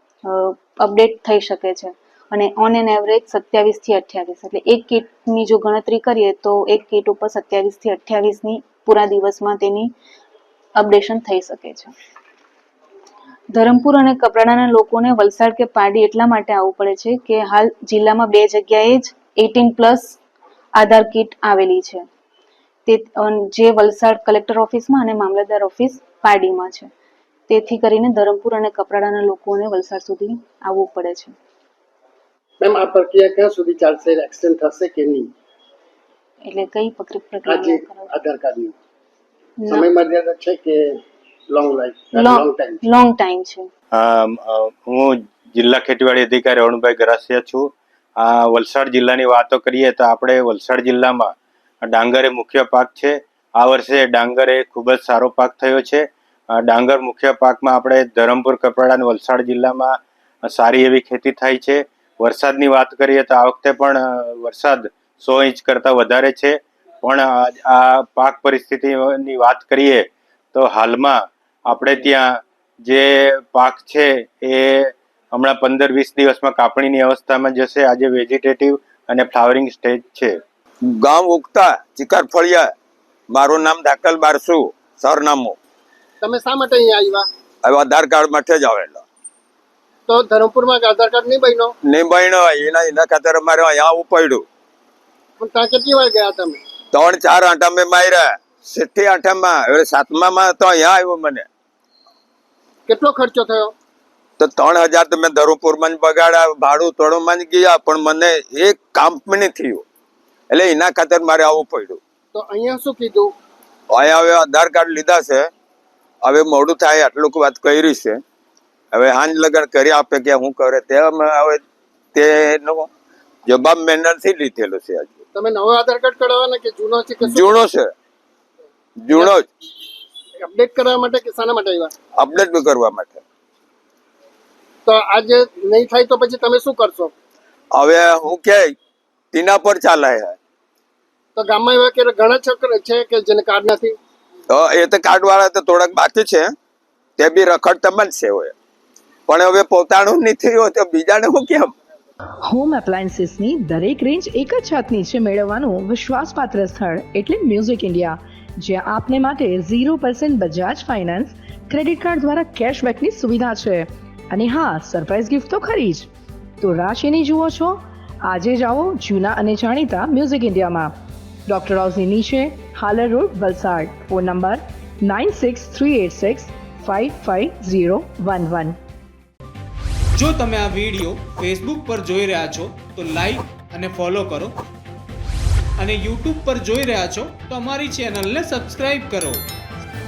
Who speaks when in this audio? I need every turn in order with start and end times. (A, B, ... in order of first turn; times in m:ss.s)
0:00.2-0:09.9 A
0:10.8-0:11.9 A
0:13.5-0:20.2 A
0:20.8-0:22.0 A
0:22.9-0:26.9 A
0:27.5-0:31.3 A
0:32.6-0:35.3 B
0:36.4-0:38.1 A
0:37.4-0:38.7 B
0:39.7-0:40.9 B
0:41.5-0:42.8 B
0:42.1-0:43.7 A
0:43.9-1:20.4 C
1:21.0-1:22.7 D
1:23.3-1:25.6 D
1:26.2-1:27.3 B
1:27.6-1:29.0 D
1:30.1-1:31.7 B
1:31.8-1:34.4 D
1:35.4-1:36.6 B
1:36.9-1:41.5 D
1:42.9-1:43.7 B
1:44.4-1:49.8 D
1:50.5-1:52.0 D
1:52.3-1:53.3 B
1:53.9-1:55.5 D
1:56.2-1:58.2 D
1:58.9-2:01.6 D
2:02.1-2:02.9 D
2:03.4-2:05.2 D
2:05.3-2:07.6 B
2:07.2-2:07.9 D
2:09.0-2:09.5 D
2:10.4-2:11.9 B
2:12.2-2:13.2 D
2:14.8-2:17.1 B
2:17.7-2:18.7 D
2:19.3-2:20.4 D
2:21.4-2:24.0 B
2:24.5-2:26.5 D
2:27.2-2:28.5 D
2:29.3-2:31.7 D
2:32.4-2:46.1 E
2:46.6-2:50.9 E
2:51.5-2:58.8 E
3:00.1-3:04.5 F
3:05.8-3:09.4 F